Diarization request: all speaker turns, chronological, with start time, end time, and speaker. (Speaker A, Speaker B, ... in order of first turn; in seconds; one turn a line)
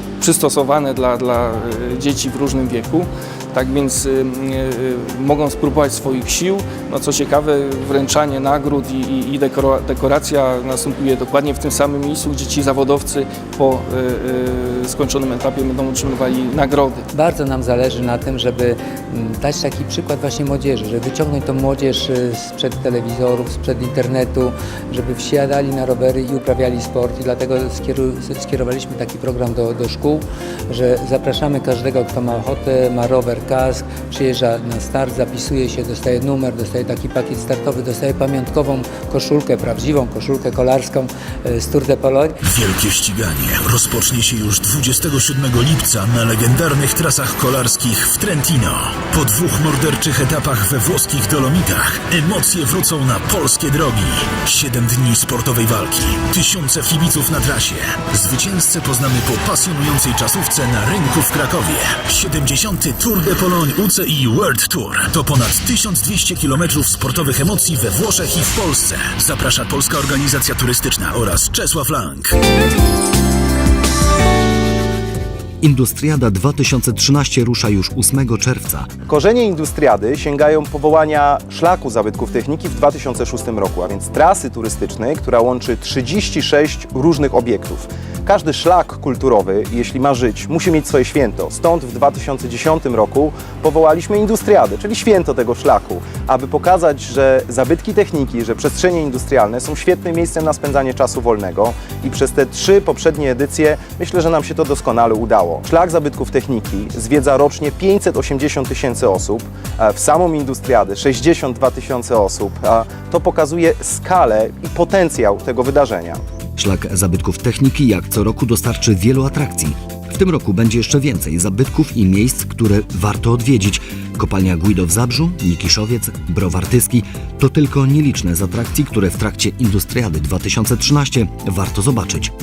Speaker A: 0.2-17.1
Speaker B: 17.1-42.4
Speaker C: 42.4-72.4
Speaker D: 75.6-78.9
Speaker E: 79.1-116.2
Speaker D: 116.6-132.3